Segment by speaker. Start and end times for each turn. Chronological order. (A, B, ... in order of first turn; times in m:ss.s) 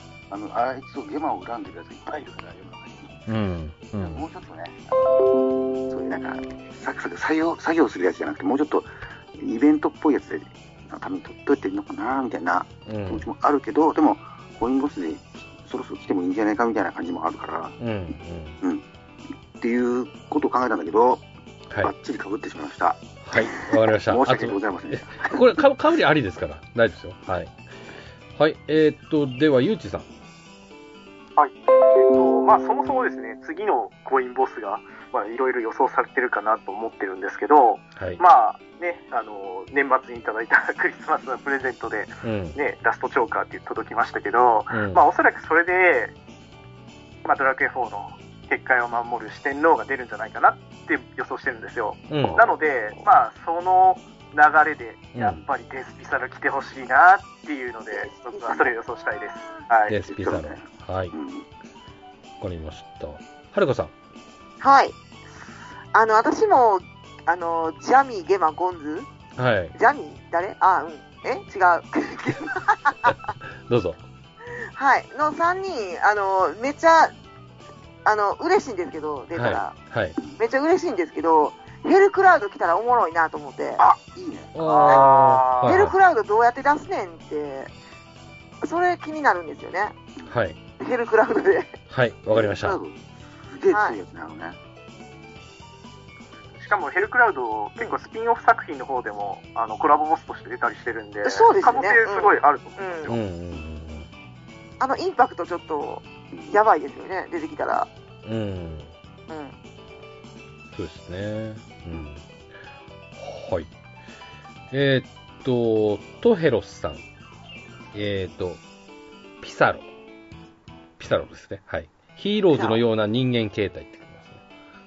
0:00.3-0:03.3 A
0:03.3-0:04.3 B
0:04.0-0:04.9 A
0:05.9-0:17.8 A
0:12.9-0:13.3 B
0:17.8-0:18.6 B
0:19.6-0:21.2 A
0:21.8-0:25.6 A
0:23.2-0:27.5 B
0:28.4-0:30.1 B
0:31.4-0:46.1 C
0:42.2-0:42.6 B
0:44.7-0:45.0 B
0:47.2-1:00.0 C
0:52.1-0:52.4 B
0:52.2-0:52.4 A
0:55.1-0:55.4 B
0:57.9-0:58.7 D
0:59.9-1:01.1 B
1:00.1-1:01.5 A
1:02.4-1:03.9 B
1:04.6-1:05.0 D
1:05.9-1:09.1 D
1:09.4-1:09.8 B
1:09.8-1:13.2 D
1:13.6-1:14.0 B
1:14.8-1:17.1 D
1:18.0-1:19.8 D
1:19.4-1:20.2 B
1:20.4-1:23.8 D
1:23.8-1:24.6 A
1:24.6-1:25.9 B
1:24.6-1:25.9 C
1:25.6-1:27.7 D
1:28.6-1:29.9 D
1:30.3-1:30.6 B
1:30.8-1:31.8 D
1:31.9-1:32.8 B
1:32.3-1:34.6 A
1:33.7-1:34.0 D
1:36.4-1:43.2 C
1:41.2-1:43.1 D
1:43.1-1:44.1 B
1:44.8-1:47.9 D
1:48.2-1:48.9 B
1:50.7-1:52.2 B
1:53.2-1:53.7 B
1:54.7-1:57.0 B
1:57.9-1:58.6 B
1:59.4-1:59.9 B
2:01.0-2:04.4 B
2:02.5-2:02.8 D